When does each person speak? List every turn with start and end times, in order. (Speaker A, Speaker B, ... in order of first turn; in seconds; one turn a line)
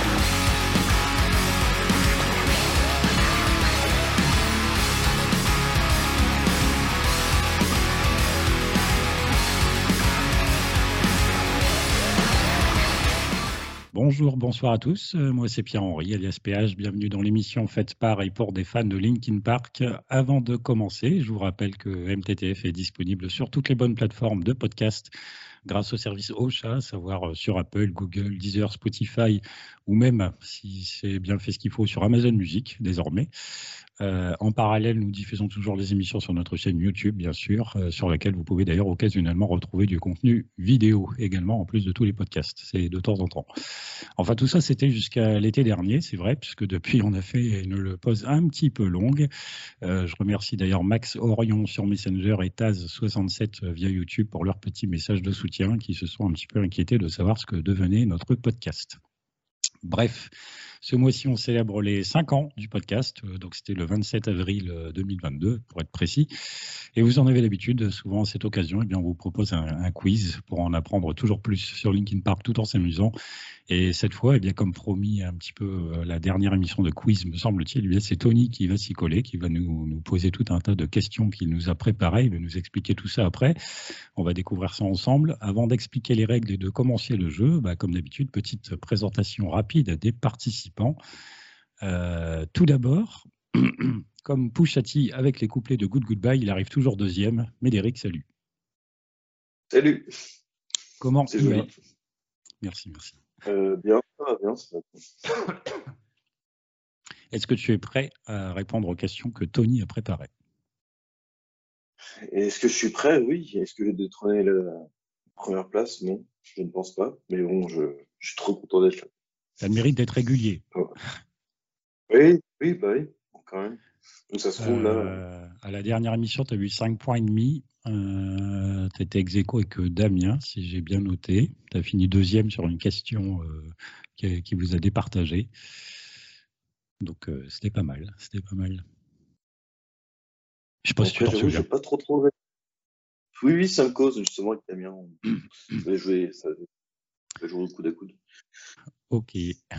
Speaker A: 13.9-25.1
Speaker A: 25.7-33.3
Speaker A: 34.0-43.5
Speaker A: 44.2-49.3
Speaker A: 49.8-59.0
Speaker A: 59.9-60.3
Speaker A: 60.8-66.3
Speaker A: 66.9-73.1
Speaker A: 73.7-91.0
Speaker A: 91.8-98.2
Speaker B: 99.7-100.1
Speaker A: 101.0-101.7
Speaker B: 101.3-101.7
Speaker A: 102.6-103.2
Speaker B: 103.5-105.5
Speaker A: 107.3-110.3
Speaker B: 112.3-114.8
Speaker B: 115.4-119.1
Speaker A: 119.6-120.6
Speaker B: 122.1-123.8
Speaker B: 124.3-125.2
Speaker A: 124.6-135.5
Speaker A: 137.0-138.8
Speaker A: 140.8-141.6
Speaker B: 141.0-142.3
Speaker B: 143.4-145.2
Speaker B: 145.8-146.7
Speaker B: 147.4-148.2
Speaker A: 149.1-149.6